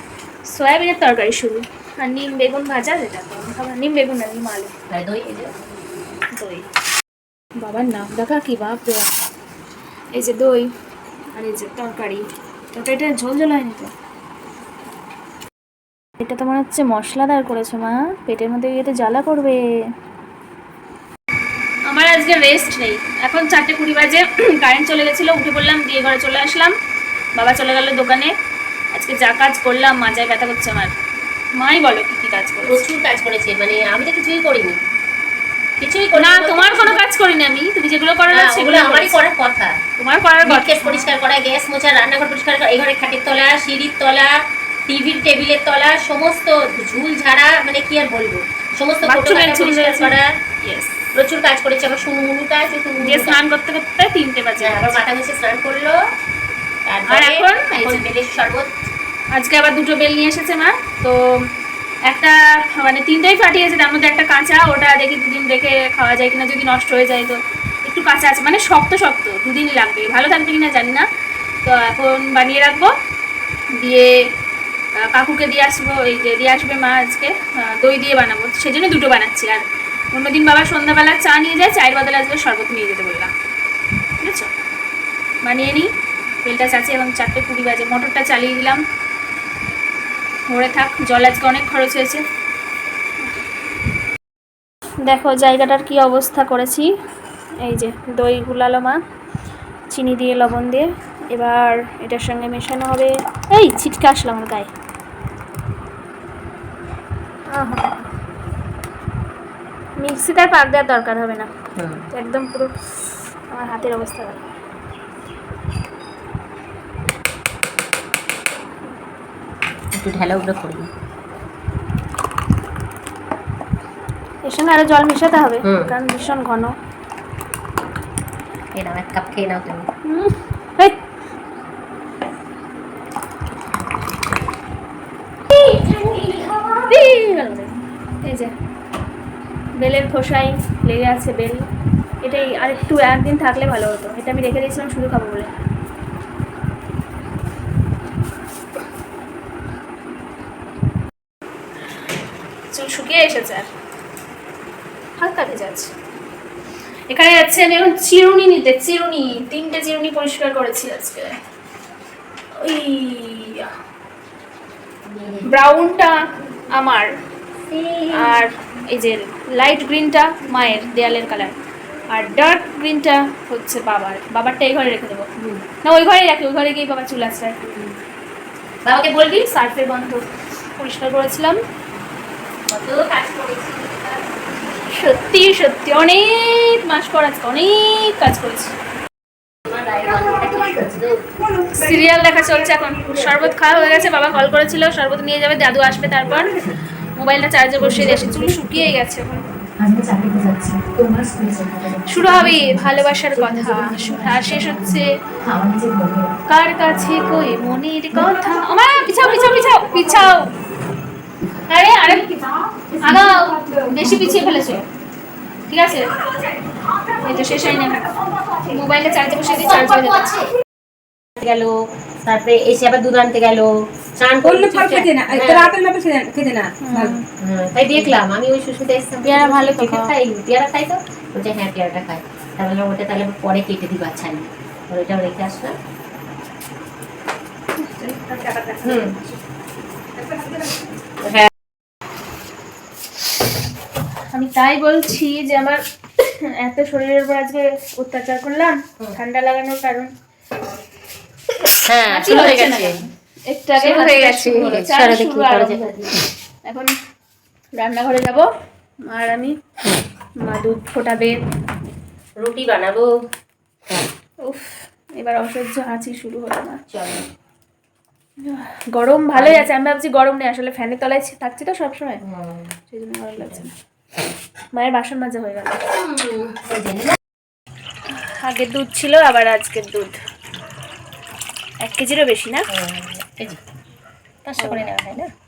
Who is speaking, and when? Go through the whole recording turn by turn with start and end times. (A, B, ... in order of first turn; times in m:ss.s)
0:00.5-0:04.7 A
0:04.9-0:05.5 B
0:06.3-0:06.7 A
0:07.6-0:09.1 A
0:10.1-0:10.7 A
0:11.4-0:13.9 A
0:16.2-0:19.8 A
0:21.9-0:26.8 A
0:27.4-0:28.3 A
0:28.9-0:31.0 A
0:31.6-0:32.8 A
0:32.6-0:34.8 B
0:35.8-0:37.0 B
0:36.2-0:39.2 A
0:38.3-0:39.8 B
0:40.0-0:41.1 A
0:40.4-0:44.3 B
0:44.9-0:50.3 B
0:49.0-0:51.1 A
0:51.2-0:53.4 B
0:53.0-0:55.0 A
0:54.6-0:56.0 B
0:56.8-0:58.7 B
0:57.1-0:58.0 A
0:59.3-1:01.5 A
1:02.1-1:11.1 A
1:11.6-1:12.9 A
1:13.7-1:14.2 A
1:15.0-1:23.3 A
1:24.2-1:24.5 A
1:25.4-1:25.9 A
1:26.4-1:28.8 A
1:30.5-1:32.2 A
1:35.0-1:36.9 A
1:37.6-1:39.0 A
1:39.9-1:44.7 A
1:47.5-1:48.0 A
1:50.0-1:51.5 A
1:51.8-1:52.1 B
1:52.1-1:54.4 A
2:00.0-2:00.9 B
2:04.4-2:06.8 A
2:05.6-2:05.9 B
2:08.8-2:09.9 B
2:10.1-2:11.0 A
2:15.5-2:17.1 B
2:16.9-2:18.5 A
2:19.8-2:21.7 A
2:22.2-2:25.5 A
2:32.7-2:33.7 A
2:35.2-2:35.9 A
2:37.1-2:41.4 A
2:42.6-2:43.7 A
2:45.1-2:45.5 B
2:45.5-2:46.2 A
2:46.7-2:47.1 A
2:47.7-2:48.4 B
2:48.1-2:51.6 A
2:52.1-2:55.3 A
2:55.4-2:55.6 B
2:55.8-2:57.6 A
2:57.7-2:57.9 B
2:58.8-2:59.5 B
2:59.2-3:00.2 A
3:00.8-3:01.6 A
3:02.7-3:04.3 B
3:04.9-3:08.7 A
3:09.7-3:11.2 B
3:11.6-3:19.4 A
3:17.9-3:18.7 C
3:19.8-3:26.4 C
3:22.0-3:25.2 A
3:26.5-3:30.5 A
3:31.7-3:32.4 A
3:32.2-3:34.4 C
3:33.0-3:34.9 A
3:35.7-3:36.1 A
3:37.2-3:40.5 A
3:39.6-3:40.5 B
3:41.4-3:45.8 B
3:44.5-3:47.2 C
3:46.8-3:47.3 A
3:47.4-3:55.8 B
3:49.2-3:50.1 A
3:57.8-3:59.4 A
3:58.8-3:59.1 B
4:00.2-4:00.7 A
4:01.2-4:01.5 B
4:04.3-4:10.1 A
4:11.6-4:13.0 B
4:12.1-4:16.1 A
4:13.8-4:16.2 B
4:16.7-4:16.9 A
4:17.8-4:18.5 A
4:19.0-4:19.6 A
4:20.4-4:21.4 A
4:22.4-4:23.1 B
4:24.4-4:26.8 A
4:26.9-4:27.3 B
4:28.4-4:32.2 A
4:29.3-4:29.7 B
4:32.2-4:32.7 B
4:32.9-4:33.7 A
4:34.7-4:35.8 A
4:35.9-4:37.2 B
4:38.1-4:40.2 A
4:41.8-4:42.7 A
4:42.7-4:43.6 B
4:44.4-4:45.3 B
4:44.6-4:44.9 A